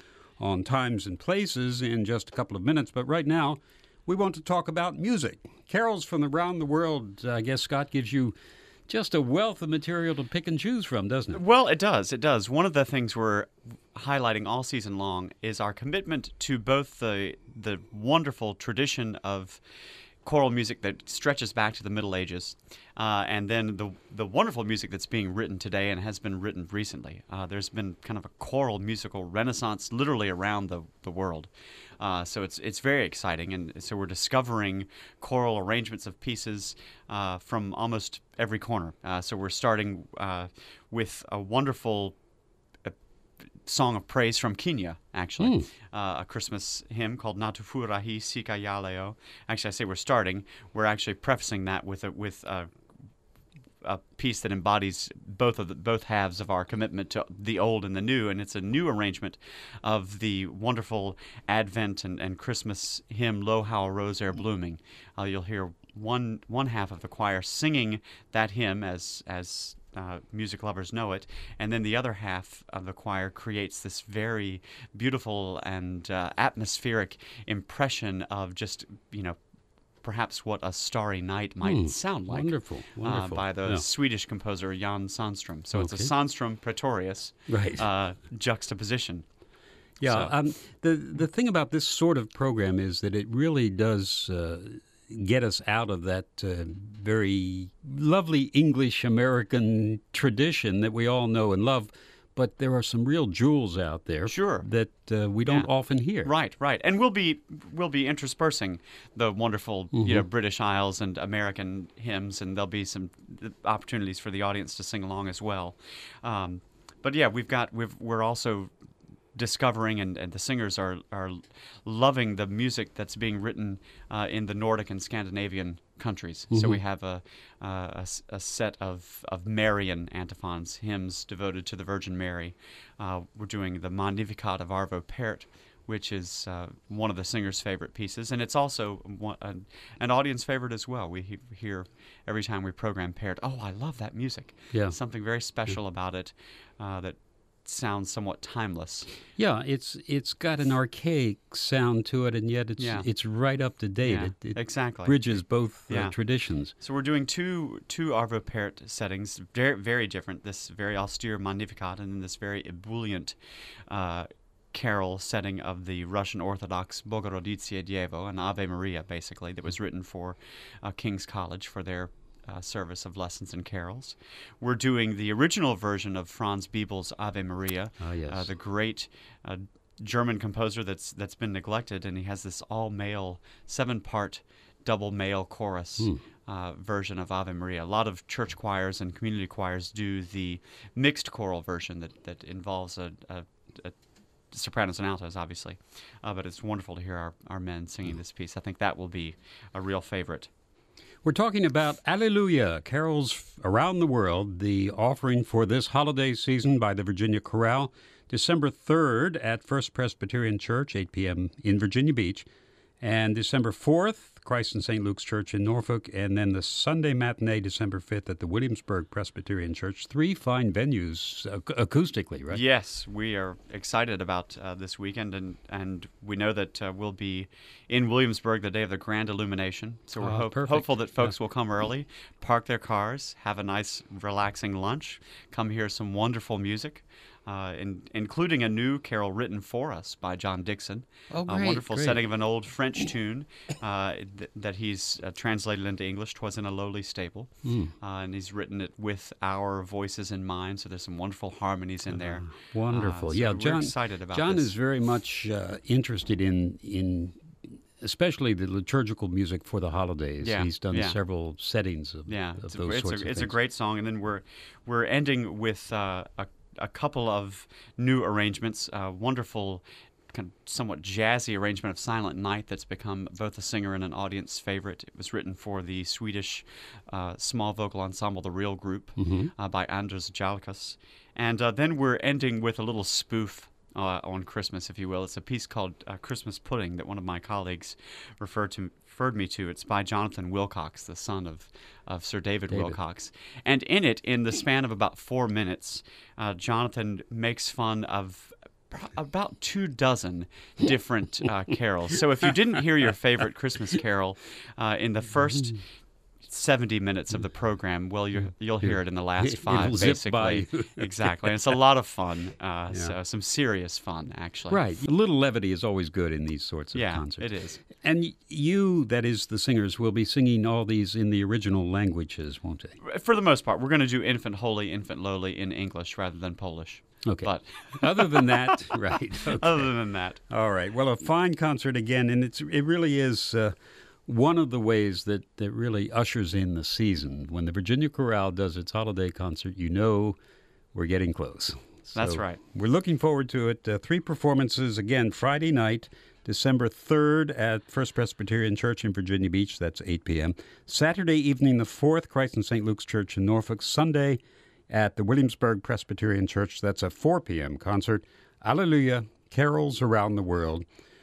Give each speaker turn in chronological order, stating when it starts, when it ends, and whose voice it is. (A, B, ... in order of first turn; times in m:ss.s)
0:00.4-0:08.4 A
0:08.9-0:11.4 A
0:11.3-0:19.6 B
0:20.2-0:42.2 B
0:43.6-0:52.7 B
0:45.4-0:45.7 A
0:53.8-1:19.4 B
1:20.0-1:29.2 B
1:21.6-1:23.8 A
1:25.8-1:26.1 A
1:27.5-1:27.8 A
1:30.0-1:30.4 B
1:30.0-1:46.3 A
1:44.3-1:44.7 B
1:46.2-1:58.7 B
1:49.9-1:50.2 A
1:59.4-2:29.1 B
2:06.5-2:06.8 A
2:29.4-2:36.7 A
2:32.8-2:33.1 B
2:34.0-2:36.2 B
2:36.7-2:43.4 B
2:43.9-3:14.0 B
2:58.0-2:58.5 A
3:14.5-3:20.5 B
3:21.2-3:32.5 A
3:33.0-3:42.6 A
3:42.5-4:14.7 B
3:50.2-3:51.4 A
4:01.3-4:02.2 A
4:07.6-4:07.9 A
4:12.1-4:23.5 A
4:20.4-4:21.2 B
4:22.3-5:05.9 B
4:39.2-4:39.5 A
4:52.7-4:53.0 A
5:06.4-5:14.8 B
5:08.8-5:11.5 A
5:14.7-5:23.0 A
5:17.0-5:17.9 B
5:23.0-5:28.7 B
5:27.2-5:29.9 A
5:29.4-5:30.4 B
5:30.5-5:33.7 A
5:34.3-5:40.4 A
5:40.9-5:54.4 A
5:42.1-5:42.6 B
5:54.9-6:00.8 A